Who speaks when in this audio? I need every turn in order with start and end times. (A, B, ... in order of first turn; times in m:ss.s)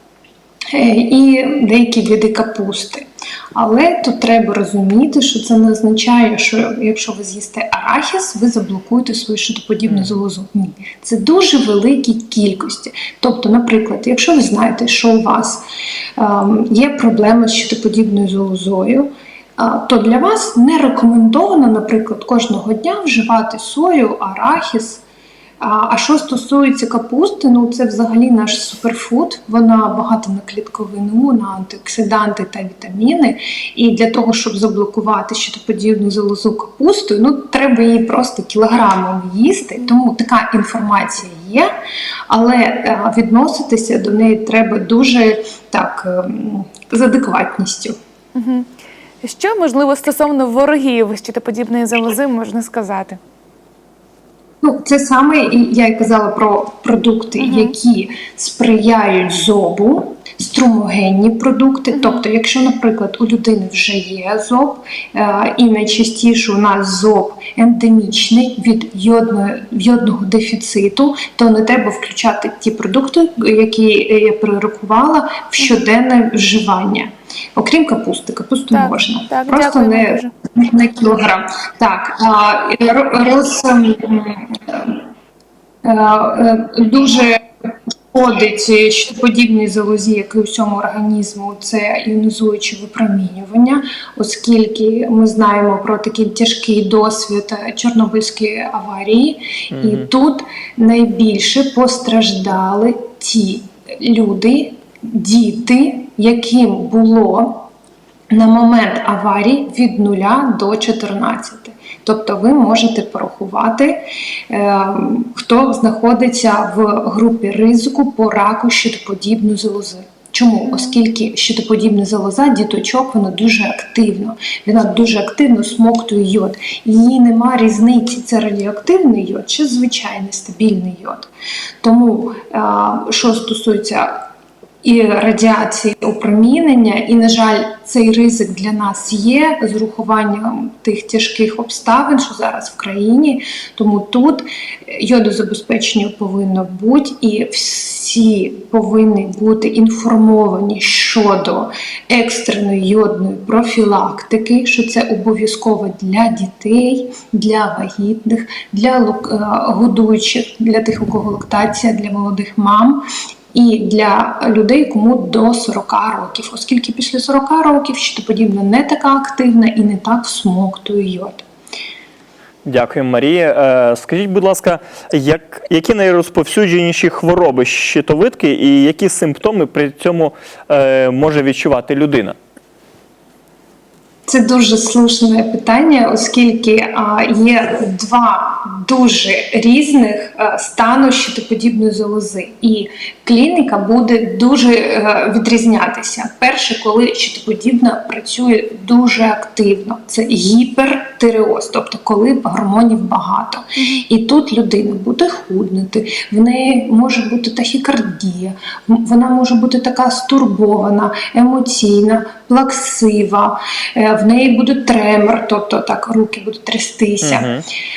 0:00.7-0:15.6 A
0:16.2-0:25.0 A
0:25.6-0:41.7 A
0:42.3-0:48.0 A
0:48.3-0:48.7 B
0:49.2-0:53.2 B
0:54.6-1:25.0 A
0:57.4-0:57.7 B
1:18.7-1:20.3 B
1:25.8-1:27.4 A
1:28.1-1:47.6 A
1:39.7-1:40.0 C
1:48.3-2:11.3 A
2:11.8-2:14.2 A
2:14.8-2:51.4 A
2:52.6-3:02.4 C
3:04.3-3:37.5 A
3:23.8-3:24.0 B
3:37.2-3:37.6 C